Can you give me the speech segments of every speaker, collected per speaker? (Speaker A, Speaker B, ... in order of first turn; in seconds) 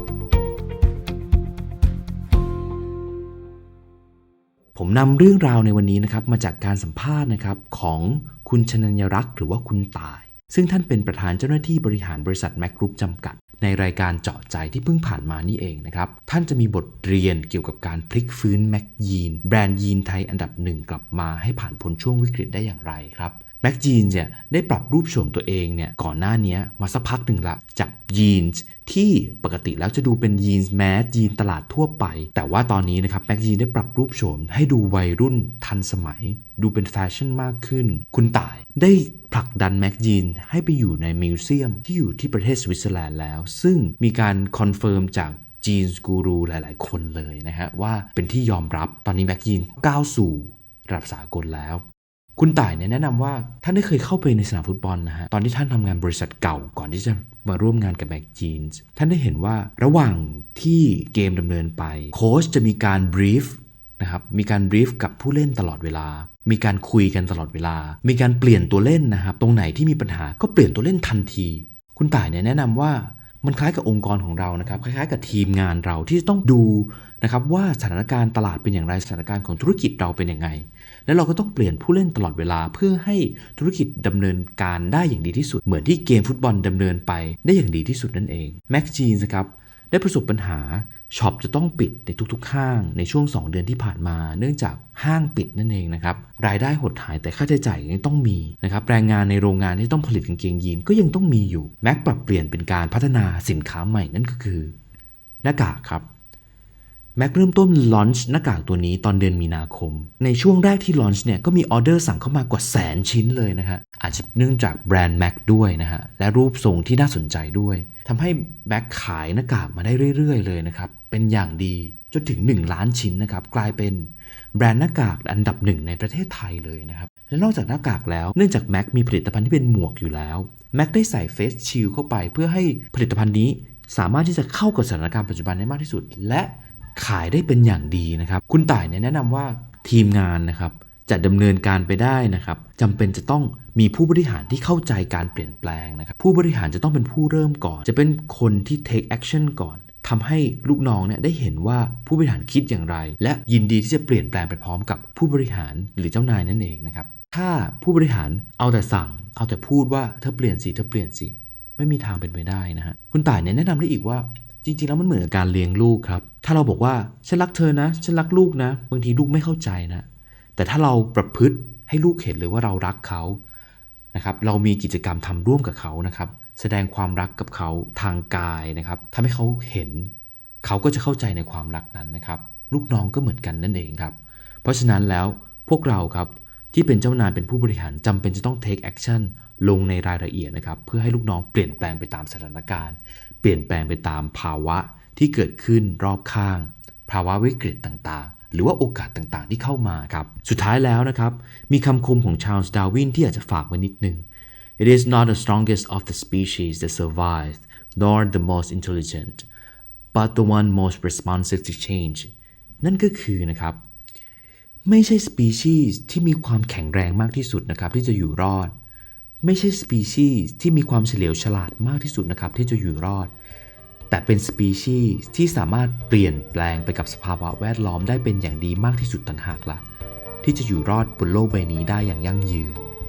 Speaker A: 4.7-51.8, 52.4-104.7, 105.4-106.1, 107.2-173.4, 174.1-204.2, 204.8-209.4, 210.1-212.3, 212.8-213.8, 214.8-218.7, 219.4-223.3, 224.1-229.8, 230.4-232.9